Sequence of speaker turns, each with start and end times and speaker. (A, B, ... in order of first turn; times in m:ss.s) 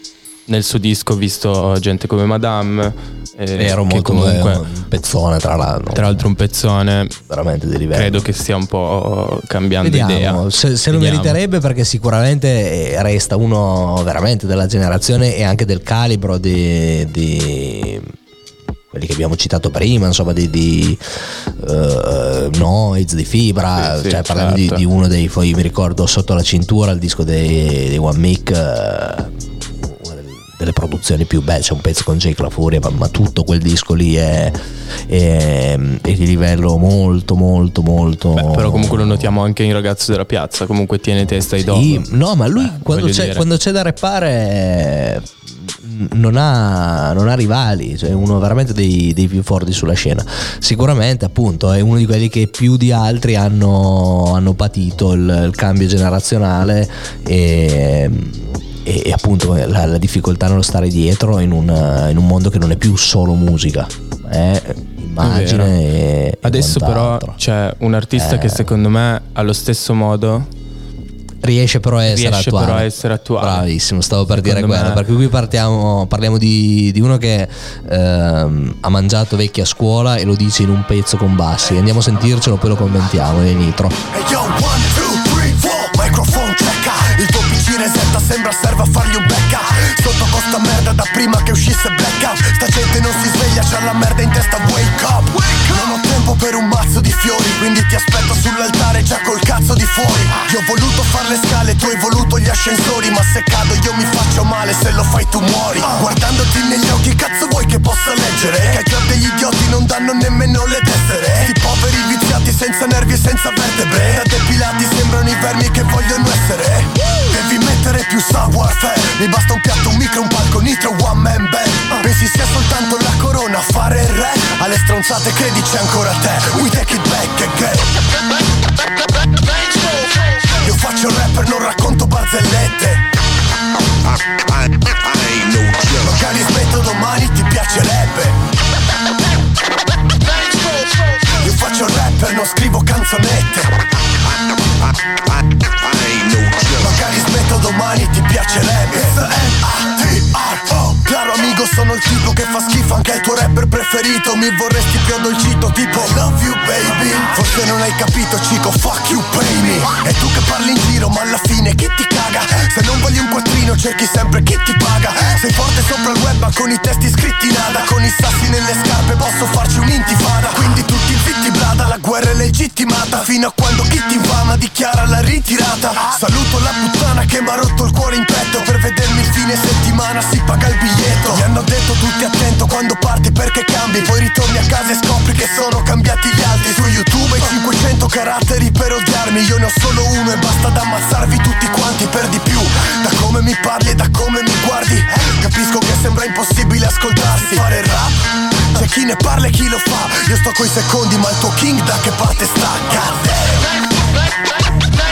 0:00.5-0:04.6 A
0:03.6-0:06.3 B
0:06.0-0:07.1 A
0:07.3-0:08.2 B
0:07.9-0:11.4 A
0:09.8-0:18.1 B
0:18.9-0:21.0 B
0:21.6-0:34.6 B
0:23.8-0:24.8 A
0:35.1-0:39.4 B
0:38.4-0:42.1 A
0:41.7-1:07.4 B
0:42.6-0:43.4 A
1:05.2-1:05.8 A
1:06.4-1:10.5 A
1:08.1-1:08.7 B
1:11.4-1:24.0 B
1:12.1-1:13.7 A
1:14.3-1:15.0 A
1:24.1-2:07.9 C
2:10.4-2:13.0 C
2:15.9-2:18.4 C
2:21.2-2:23.8 C
2:26.7-3:18.2 C
3:18.7-3:23.7 C